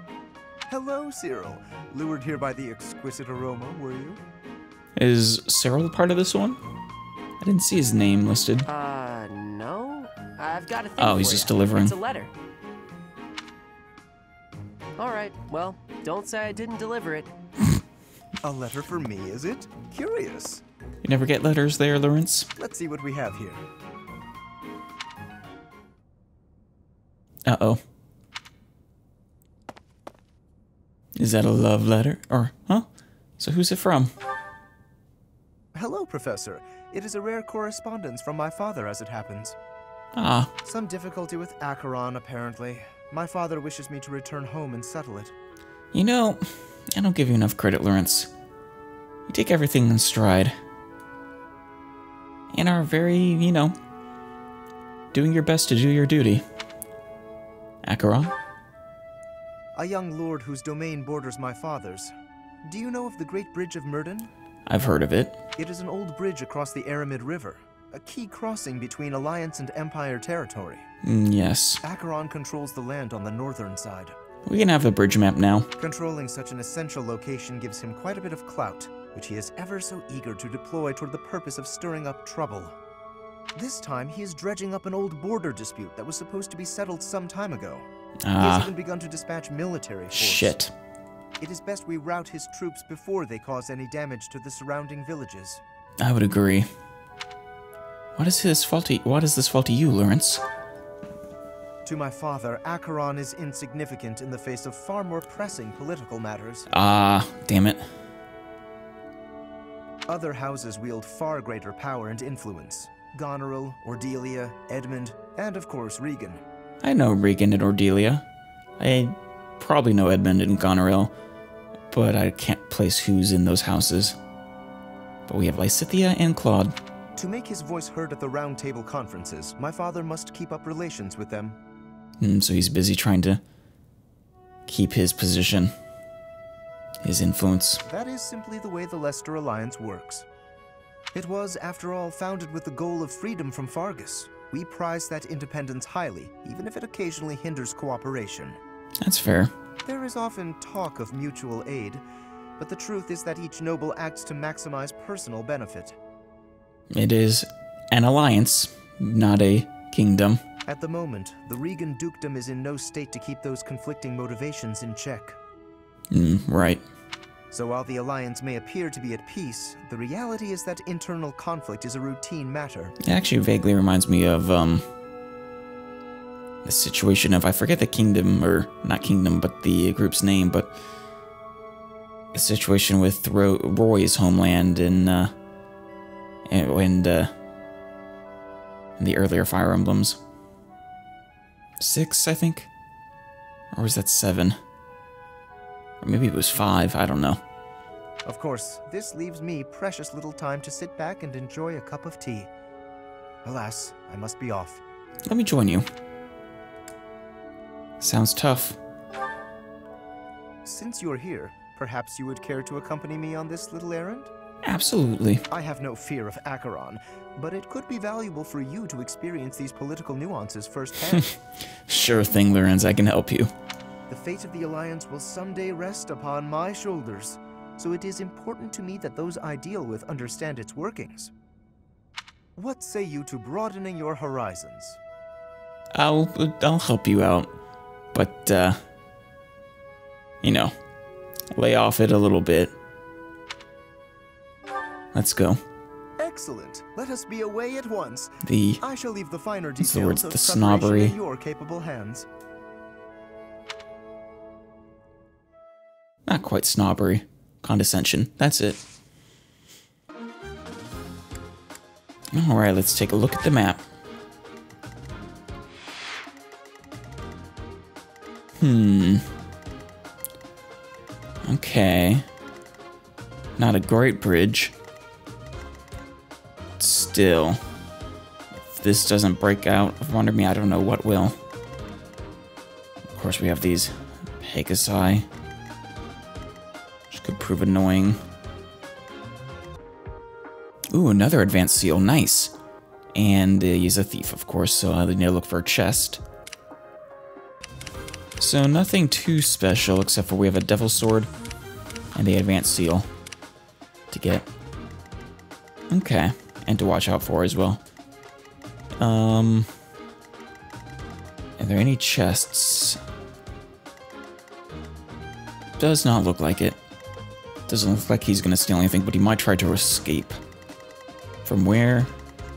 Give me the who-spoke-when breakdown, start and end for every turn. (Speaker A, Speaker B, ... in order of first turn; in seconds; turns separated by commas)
Speaker A: 0.7-4.2, Speaker B: 5.0-6.6, Speaker B: 7.4-8.7, Speaker C: 8.7-12.3, Speaker B: 11.0-11.9, Speaker C: 15.0-17.3, Speaker A: 18.4-20.6, Speaker B: 21.0-22.5, Speaker A: 22.6-23.6, Speaker B: 27.5-27.8, Speaker B: 31.2-32.9, Speaker B: 33.4-34.1, Speaker A: 35.7-39.6, Speaker B: 40.1-40.5, Speaker A: 40.6-45.4, Speaker B: 45.9-48.3, Speaker B: 49.3-50.6, Speaker B: 52.5-53.8, Speaker B: 55.1-56.5, Speaker B: 57.8-58.3, Speaker A: 59.7-62.1, Speaker A: 62.6-64.3, Speaker B: 64.7-65.4, Speaker A: 65.6-70.9, Speaker B: 71.0-71.8, Speaker A: 71.8-74.2, Speaker B: 74.5-75.7, Speaker A: 75.8-82.8, Speaker A: 83.5-87.9, Speaker B: 88.2-88.7, Speaker A: 88.4-90.6, Speaker B: 90.1-90.7, Speaker A: 91.4-95.6, Speaker B: 96.0-96.7, Speaker B: 98.2-100.4, Speaker A: 101.8-106.7, Speaker B: 106.7-107.8, Speaker A: 110.1-116.4, Speaker B: 116.8-118.2, Speaker B: 118.8-121.1, Speaker B: 121.9-124.2, Speaker B: 125.3-126.8, Speaker A: 127.2-131.6, Speaker B: 132.2-133.4, Speaker B: 134.7-135.8, Speaker B: 137.0-137.8, Speaker A: 137.9-140.3, Speaker A: 141.1-148.6, Speaker B: 149.0-149.5, Speaker A: 149.8-152.0, Speaker A: 152.6-156.0, Speaker B: 156.9-160.4, Speaker A: 160.7-165.4, Speaker B: 166.1-166.8, Speaker A: 167.5-173.0, Speaker B: 173.0-174.9, Speaker B: 176.7-180.8, Speaker B: 182.3-185.3, Speaker B: 186.5-187.3, Speaker B: 189.0-190.2, Speaker B: 191.8-192.7, Speaker B: 193.7-194.6, Speaker B: 196.0-197.4, Speaker A: 198.3-202.5, Speaker A: 203.4-204.8, Speaker B: 205.3-205.9, Speaker B: 208.0-208.8, Speaker A: 210.6-214.3, Speaker B: 214.7-215.4, Speaker A: 215.5-221.2, Speaker B: 221.1-223.5, Speaker A: 224.1-231.3, Speaker A: 232.6-235.0, Speaker B: 235.9-237.5, Speaker B: 238.1-238.8, Speaker B: 240.4-240.8, Speaker B: 241.5-242.7, Speaker B: 245.1-245.6, Speaker A: 246.2-252.3, Speaker B: 248.4-248.8, Speaker B: 249.8-251.2, Speaker B: 256.3-258.8, Speaker B: 262.3-263.8, Speaker B: 268.6-269.3, Speaker B: 271.4-272.3, Speaker B: 273.6-274.8, Speaker B: 276.8-277.6, Speaker B: 278.7-281.4, Speaker B: 283.1-285.3, Speaker B: 287.1-288.2, Speaker B: 290.9-292.5, Speaker B: 293.1-296.2, Speaker B: 298.4-301.3, Speaker B: 302.1-303.1, Speaker B: 304.1-304.5, Speaker B: 305.9-307.8, Speaker B: 309.0-309.7, Speaker B: 311.6-313.0, Speaker B: 315.8-316.8, Speaker B: 317.7-320.4, Speaker B: 321.4-322.1